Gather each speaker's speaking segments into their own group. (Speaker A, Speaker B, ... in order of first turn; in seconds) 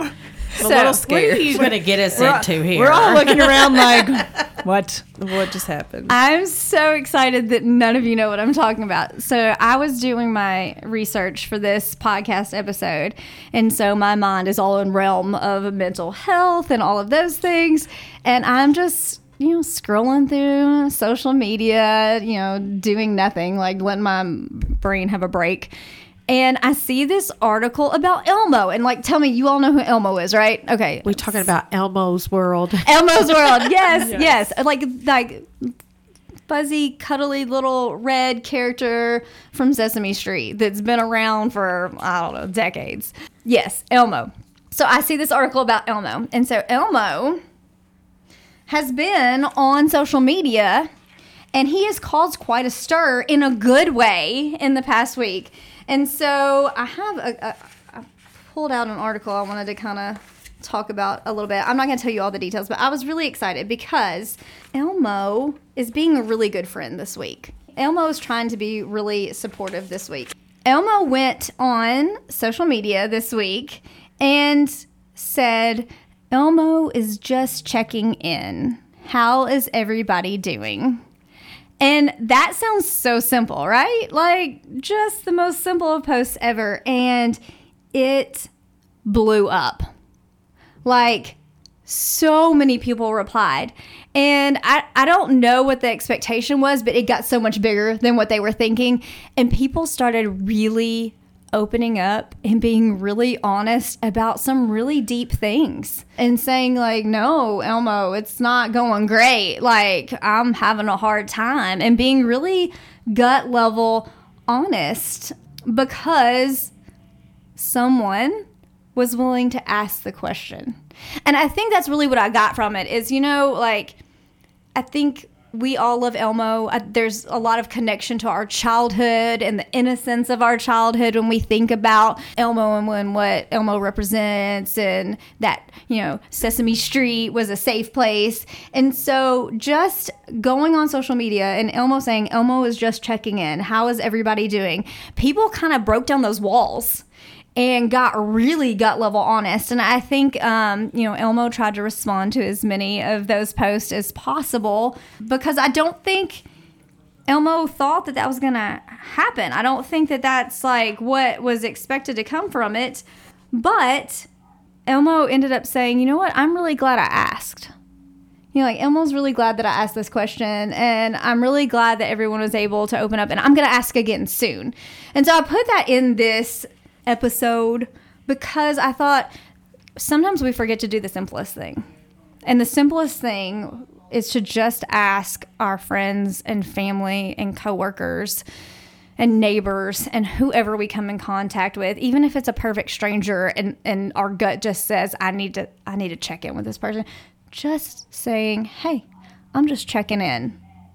Speaker A: 0.6-4.2, 31.0-33.7
Speaker B: 0.6-1.6, 6.1-25.7, 26.3-31.5, 32.8-35.7, 36.5-47.4, 48.7-50.9, 51.5-81.0, 81.8-87.4, 87.9-88.5, 89.0-89.9, 90.8-116.7, 117.6-118.4, 119.0-124.0, 124.8-147.0, 147.6-156.4, 157.3-164.3, 164.9-167.7, 168.5-179.3, 180.0-181.8, 182.4-188.4, 189.2-200.6
Speaker C: 0.6-1.6, 2.2-2.4, 5.2-6.1
Speaker D: 2.1-5.5